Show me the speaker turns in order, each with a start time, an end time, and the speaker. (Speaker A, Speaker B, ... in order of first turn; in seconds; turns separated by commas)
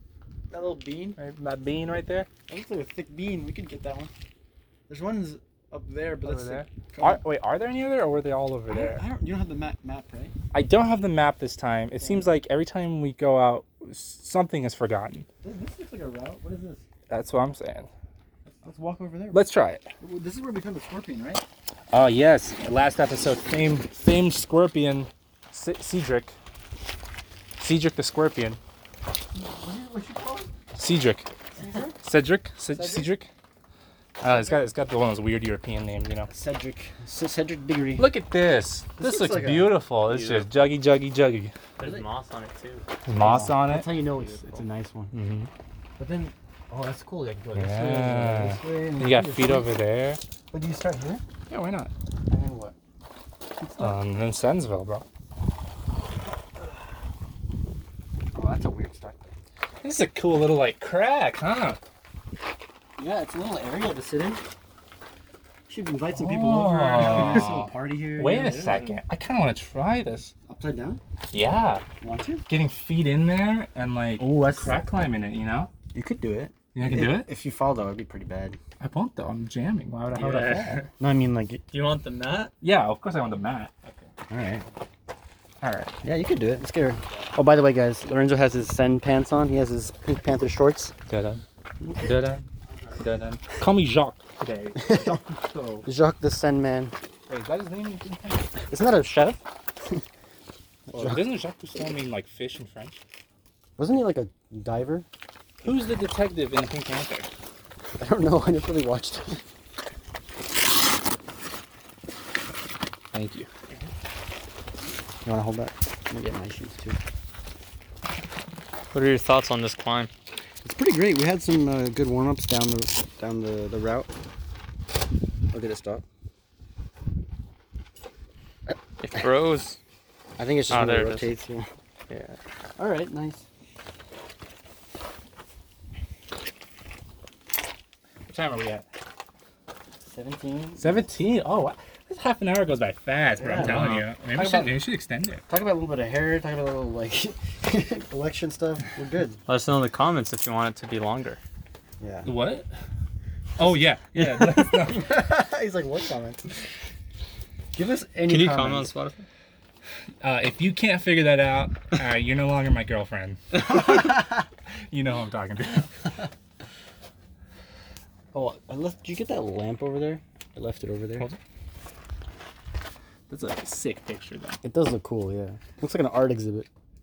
Speaker A: 0.5-1.2, Speaker B: 1.2-2.3, Speaker A: 2.5-4.1, Speaker A: 4.9-7.2, Speaker B: 6.2-9.0, Speaker A: 8.7-10.3, Speaker B: 10.5-15.2, Speaker A: 12.0-12.3, Speaker A: 15.4-16.8, Speaker B: 17.1-17.9, Speaker A: 18.6-19.4, Speaker B: 19.3-19.8, Speaker A: 20.0-21.4, Speaker B: 21.9-26.4, Speaker B: 27.6-28.6, Speaker A: 29.3-30.5, Speaker B: 30.8-31.3, Speaker A: 31.6-32.0, Speaker B: 32.0-33.3, Speaker A: 32.7-33.1, Speaker B: 34.2-36.3, Speaker A: 36.3-38.1, Speaker B: 38.0-41.5, Speaker A: 39.0-40.4, Speaker C: 41.8-42.9, Speaker B: 43.1-43.9, Speaker A: 43.1-45.1, Speaker C: 44.2-44.6, Speaker B: 45.1-45.5, Speaker A: 46.0-49.7, Speaker B: 47.5-50.2, Speaker A: 50.5-51.2, Speaker B: 51.5-51.9, Speaker A: 52.3-52.7, Speaker A: 53.6-54.0, Speaker B: 53.8-55.0, Speaker A: 58.3-59.3, Speaker B: 59.8-61.8, Speaker A: 63.0-64.4, Speaker A: 65.7-68.9, Speaker B: 66.1-70.3, Speaker A: 70.5-71.0, Speaker B: 71.3-71.8, Speaker A: 72.0-72.5, Speaker B: 72.5-75.7, Speaker A: 74.2-74.8, Speaker A: 75.9-78.6, Speaker B: 76.7-77.3, Speaker B: 78.8-80.9, Speaker C: 80.1-80.5, Speaker A: 80.2-81.6, Speaker C: 81.7-82.5, Speaker B: 82.6-84.1, Speaker A: 84.3-84.7, Speaker B: 85.6-85.9, Speaker A: 86.0-90.9, Speaker B: 91.1-91.4, Speaker A: 91.8-92.1, Speaker B: 92.0-92.5, Speaker A: 92.7-93.0, Speaker B: 93.0-95.8, Speaker A: 94.7-95.2, Speaker A: 95.8-96.9, Speaker B: 97.3-98.5, Speaker A: 98.7-100.0, Speaker A: 100.9-101.2, Speaker B: 100.9-103.0, Speaker A: 103.8-105.0, Speaker B: 105.6-107.3, Speaker A: 108.0-109.4, Speaker B: 113.1-113.5, Speaker A: 115.2-117.0, Speaker C: 118.9-120.1, Speaker A: 120.6-124.1, Speaker A: 125.5-126.0, Speaker C: 129.0-129.8, Speaker A: 130.4-131.7, Speaker C: 130.7-131.3, Speaker C: 132.1-132.4, Speaker A: 132.8-133.4, Speaker B: 138.2-138.8, Speaker A: 140.0-141.0, Speaker B: 140.8-145.4, Speaker A: 143.4-144.8, Speaker C: 143.6-144.0, Speaker A: 145.5-149.4, Speaker C: 149.5-151.4, Speaker A: 152.0-152.3, Speaker B: 152.2-152.7, Speaker B: 153.6-155.2, Speaker C: 154.1-154.7, Speaker A: 154.8-156.5, Speaker A: 157.7-158.9, Speaker C: 158.2-159.2, Speaker B: 160.2-164.2, Speaker A: 163.7-164.2, Speaker B: 164.9-165.9, Speaker A: 168.3-171.3, Speaker B: 173.3-174.6, Speaker A: 174.6-176.7